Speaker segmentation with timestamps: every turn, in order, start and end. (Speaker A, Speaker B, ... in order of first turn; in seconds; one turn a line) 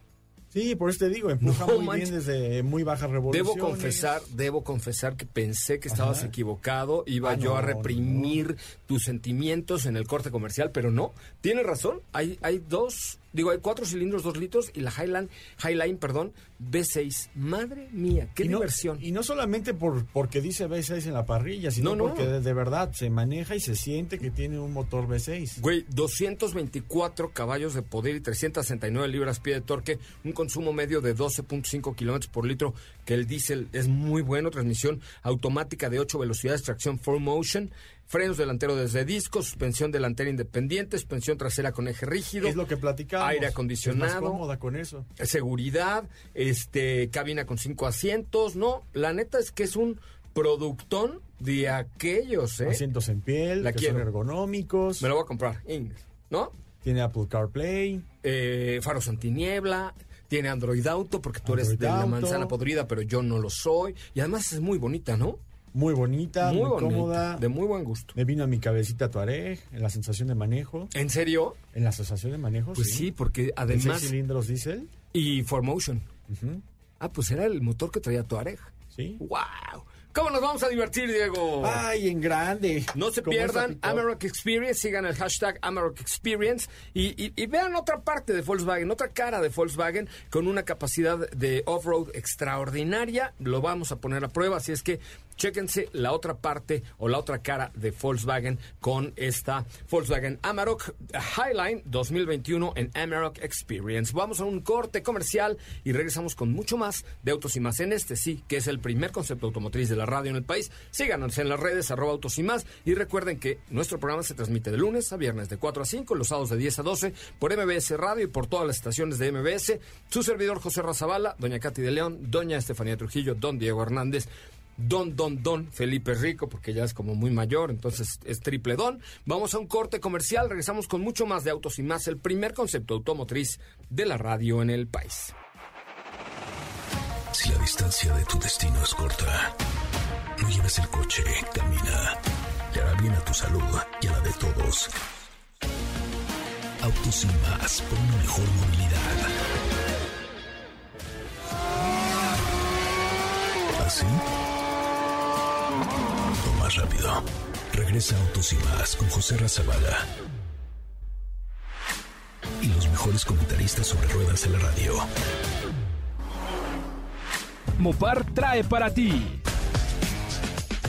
Speaker A: 0.5-4.1
Speaker B: 1.4-2.1
Speaker B: 3.3-19.0
Speaker A: 5.9-6.3
Speaker A: 7.2-8.4
Speaker A: 18.4-25.6
Speaker B: 21.8-22.3
Speaker B: 25.6-42.6
Speaker A: 42.4-45.1
Speaker B: 43.2-44.4
Speaker B: 45.2-52.8
Speaker A: 52.6-55.1
Speaker B: 53.6-54.1
Speaker B: 55.0-56.5
Speaker A: 56.8-58.0
Speaker B: 58.2-65.4
Speaker A: 61.4-62.6
Speaker A: 65.7-67.5
Speaker B: 66.4-68.1
Speaker A: 68.1-70.9
Speaker B: 70.9-71.6
Speaker A: 71.7-73.1
Speaker B: 72.7-74.1
Speaker A: 73.7-74.9
Speaker B: 75.1-76.1
Speaker A: 76.3-76.6
Speaker B: 77.0-81.8
Speaker A: 78.9-79.2
Speaker A: 81.6-84.0
Speaker B: 82.9-135.3
Speaker C: 137.3-139.5
Speaker C: 140.4-142.2
Speaker C: 142.7-144.9
Speaker C: 146.8-149.3
Speaker C: 153.8-154.2
Speaker C: 156.4-160.1
Speaker C: 162.6-165.1
Speaker C: 168.6-169.0